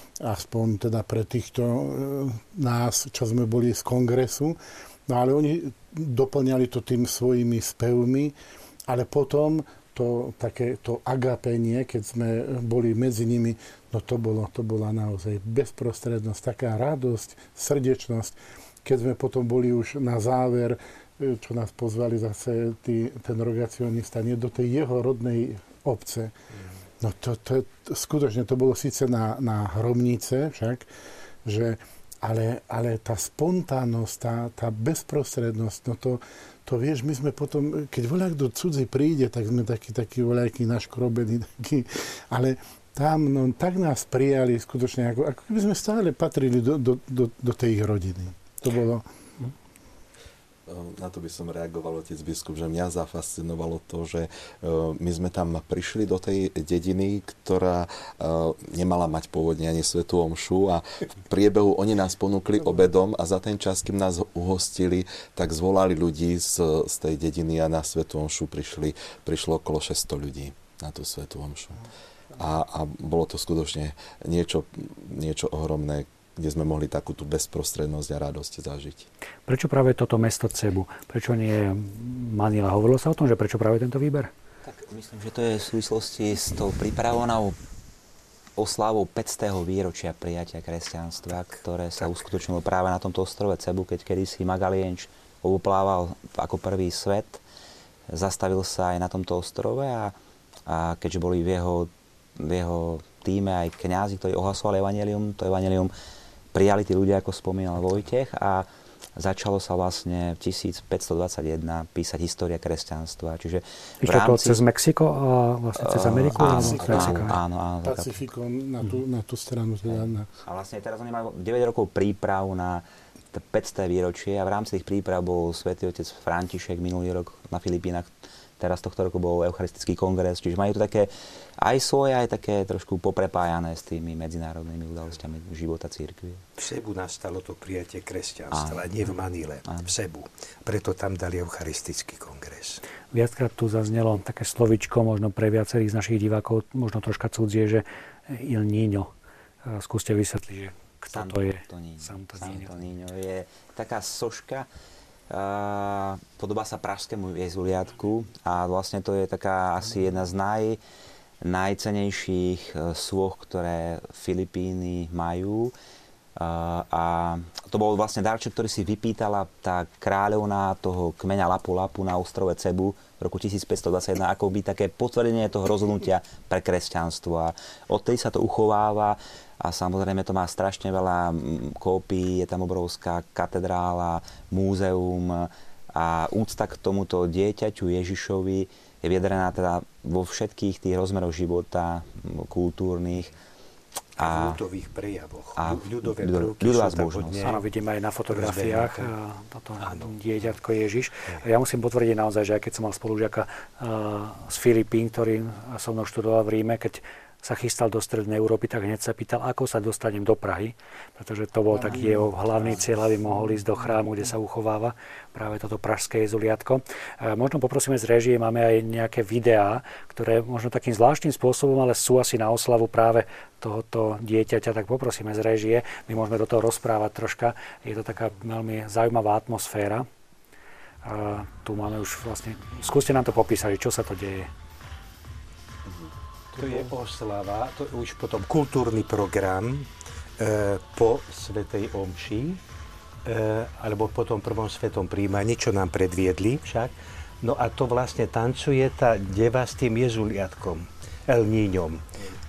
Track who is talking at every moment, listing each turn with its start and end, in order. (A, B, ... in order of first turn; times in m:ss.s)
0:00.2-0:08.3 A
0:08.9-0:26.3 A
0:27.0-0:30.8 A
0:31.4-0:49.0 A
0:50.7-1:11.8 B
1:12.4-1:19.1 B
1:19.5-1:24.3 C
1:24.6-1:27.6 D
1:28.6-1:37.4 D
1:38.1-1:40.1 D
1:40.7-1:45.9 D
1:46.5-1:54.6 D
1:54.0-1:57.4 C
1:55.8-1:58.2 D
1:56.2-1:57.4 B
1:56.3-2:00.3 A
1:59.9-2:16.4 D
2:16.6-2:22.8 E
2:18.5-2:19.1 D
2:19.6-2:19.9 D
2:23.1-2:29.1 C
2:29.6-2:32.7 C
2:31.1-2:34.7 D
2:35.3-2:40.8 D
2:41.4-2:45.7 D
2:46.4-3:13.3 D
3:14.2-3:17.6 E
3:14.2-3:14.6 D
3:15.6-3:17.5 D
3:17.4-3:50.1 C
3:18.3-3:19.1 E
3:19.8-3:20.3 E
3:31.7-3:33.6 A
3:51.0-3:54.5 C
3:56.5-4:02.6 E
4:03.2-4:12.2 E